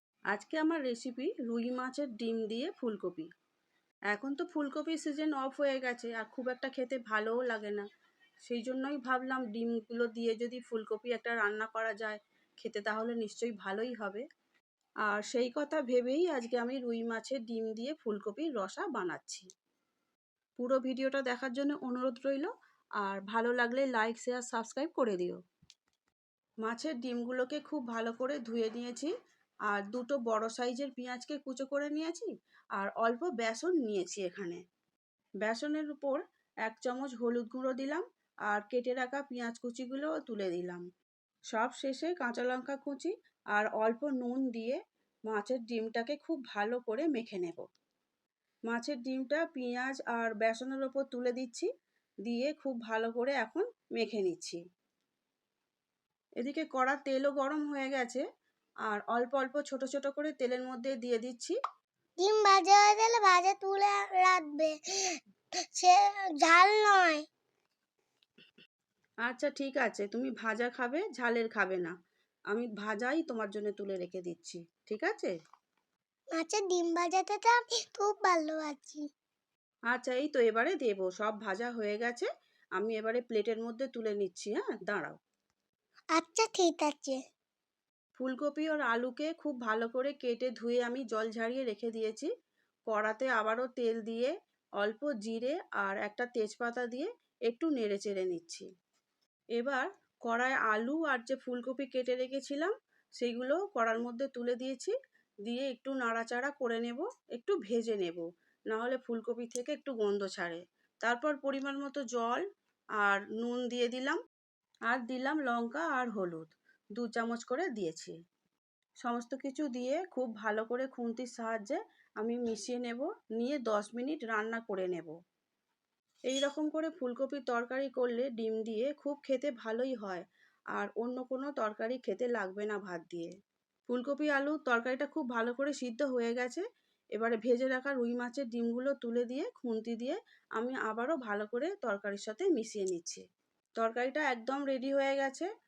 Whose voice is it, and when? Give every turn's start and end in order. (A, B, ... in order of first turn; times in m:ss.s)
0:00.3-0:03.3 A
0:04.1-0:07.8 A
0:08.5-0:14.2 A
0:15.0-0:19.4 A
0:20.6-0:22.5 A
0:23.0-0:25.4 A
0:26.6-0:29.1 A
0:29.7-0:34.6 A
0:35.4-0:40.8 A
0:41.5-0:47.6 A
0:48.7-0:51.7 A
0:52.2-0:54.6 A
0:56.4-0:58.2 A
0:58.9-1:01.6 A
1:02.2-1:05.2 B
1:05.8-1:07.2 B
1:09.2-1:11.9 A
1:12.5-1:15.3 A
1:16.3-1:19.0 B
1:19.9-1:25.2 A
1:26.2-1:27.2 B
1:28.2-1:32.3 A
1:32.9-1:38.6 A
1:39.6-1:44.9 A
1:45.4-1:52.4 A
1:53.0-1:54.2 A
1:54.9-1:58.2 A
1:59.0-2:05.1 A
2:06.3-2:10.2 A
2:10.8-2:13.3 A
2:13.9-2:16.6 A
2:17.2-2:23.2 A
2:23.8-2:25.5 A